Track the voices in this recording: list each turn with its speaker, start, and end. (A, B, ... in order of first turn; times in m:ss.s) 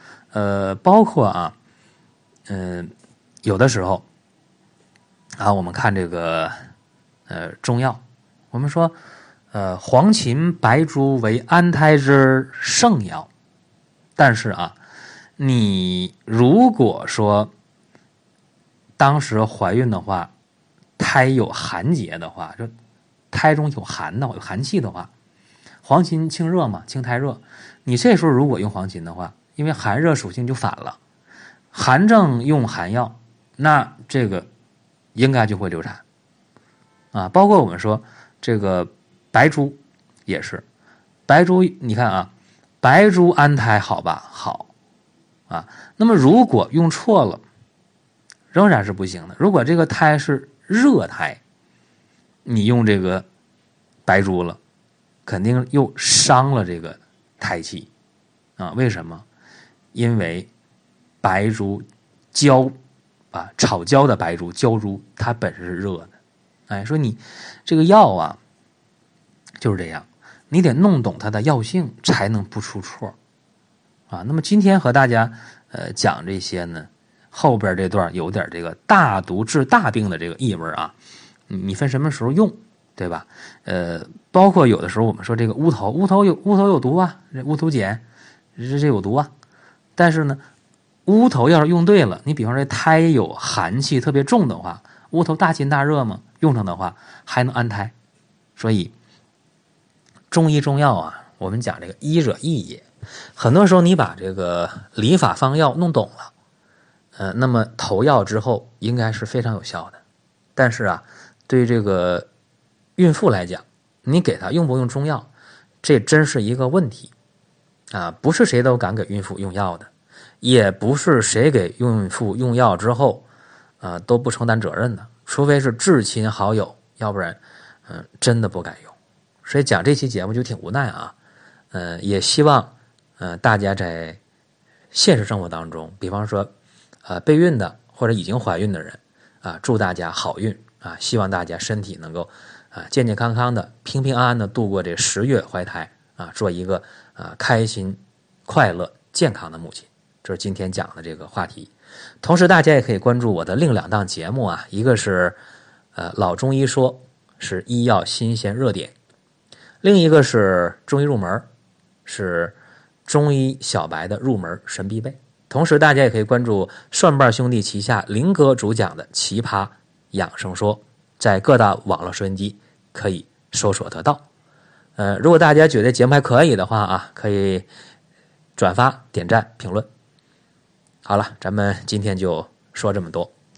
0:00.3-0:01.5 A
0:02.5-0:02.9 A
0:03.4-0:04.0 A
0:05.4-0:06.5 A
0:07.3-0:09.0 A
0:09.5-0:13.3 A
0:14.2-0:14.8 A
0:15.4-0:17.5 A
0:19.0-0:20.3 A
0:21.0-0:22.7 A
0:23.3-0:25.1 A
0:25.8-0:31.0 A
0:31.7-0:34.5 A
0:35.1-0:36.0 A
0:37.1-0:40.6 A
0:41.3-0:42.3 A
0:42.8-0:44.7 A
0:45.5-0:47.4 A
0:48.5-0:51.4 A
0:52.4-0:53.2 A
0:54.0-0:54.6 A
0:55.2-0:57.9 A
0:58.6-0:59.2 A
0:59.9-1:00.5 A
1:01.2-1:02.7 A
1:03.3-1:06.1 A
1:06.7-1:08.4 A
1:09.6-1:13.1 A
1:14.1-1:21.0 A
1:21.5-1:28.0 A
1:28.6-1:29.3 A
1:30.0-1:30.4 A
1:31.0-1:37.9 A
1:38.6-1:38.9 A
1:40.3-1:42.8 A
1:43.4-1:46.3 A
1:47.2-1:50.0 A
1:50.6-1:52.3 A
1:53.0-1:55.3 A
1:55.8-1:57.1 A
1:57.9-1:59.9 A
2:00.4-2:03.2 A
2:03.8-2:11.1 A
2:11.7-2:14.2 A
2:14.9-2:16.5 A
2:17.0-2:35.4 A
2:35.9-2:38.9 A
2:39.8-2:41.4 A
2:42.0-2:54.2 A
2:55.0-2:57.7 A
2:58.6-2:59.9 A
3:01.0-3:03.3 A